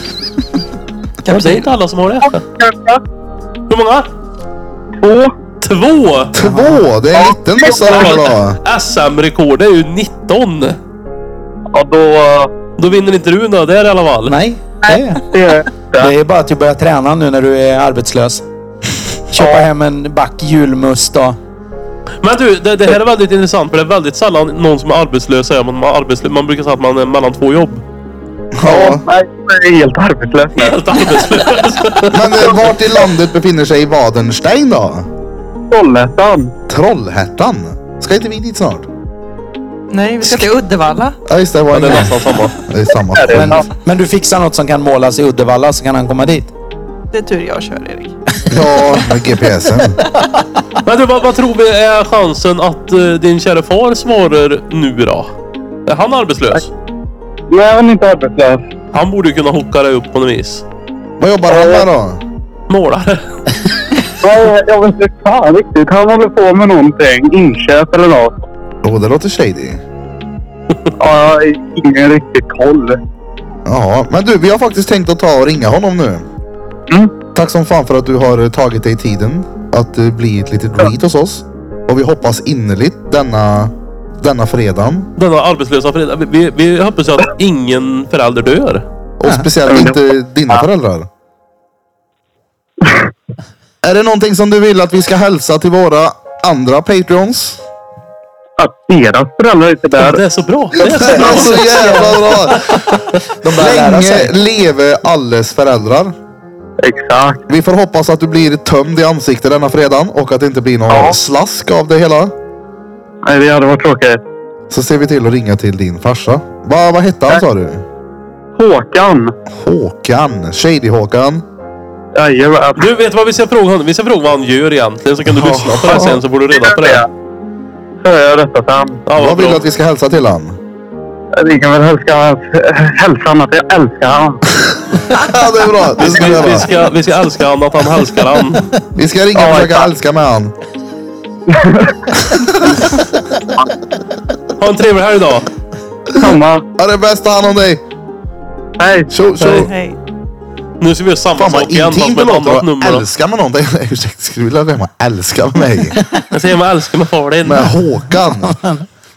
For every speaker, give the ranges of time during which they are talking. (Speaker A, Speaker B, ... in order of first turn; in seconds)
Speaker A: 1.2-1.7, 39.9-41.2, 47.1-48.1, 149.4-150.0
Speaker B: 1.3-2.4, 3.7-4.1, 5.6-6.3, 7.8-10.8, 12.8-14.3, 22.2-27.8, 30.5-32.5, 41.7-42.5, 50.8-55.3, 55.9-56.7, 58.9-60.6, 62.7-63.6, 85.2-88.8, 100.0-102.2, 122.8-127.0, 129.1-129.6, 136.0-138.7, 144.6-145.5, 149.4-149.7, 150.8-153.0, 156.3-157.7
Speaker C: 6.3-8.6, 28.5-29.0, 32.1-35.1, 36.7-38.9, 41.2-43.7, 48.5-50.0, 61.2-62.2, 68.8-69.8, 73.7-76.3, 77.3-85.1, 89.2-91.1, 93.8-97.6, 100.8-102.8, 103.4-106.1, 107.5-112.3, 114.7-117.8, 119.5-121.4, 125.3-126.2, 129.1-130.6, 135.0-136.7, 138.9-140.5, 142.3-142.8, 146.2-147.8, 149.1-149.7, 151.3-156.0, 157.4-158.6
Speaker D: 6.4-6.9, 14.2-15.2, 16.0-18.4, 19.3-21.4, 43.3-46.5, 100.8-102.7, 103.4-104.3, 158.1-158.8
Speaker E: 11.9-12.4, 28.7-30.6, 35.8-36.4, 57.5-58.6, 61.5-61.8, 64.2-68.3, 71.0-72.9, 98.8-100.0, 106.9-107.3, 113.3-114.1, 118.6-119.3, 122.2-122.8, 126.6-127.0, 128.0-128.9, 131.4-134.4, 139.4-139.8, 146.2-146.6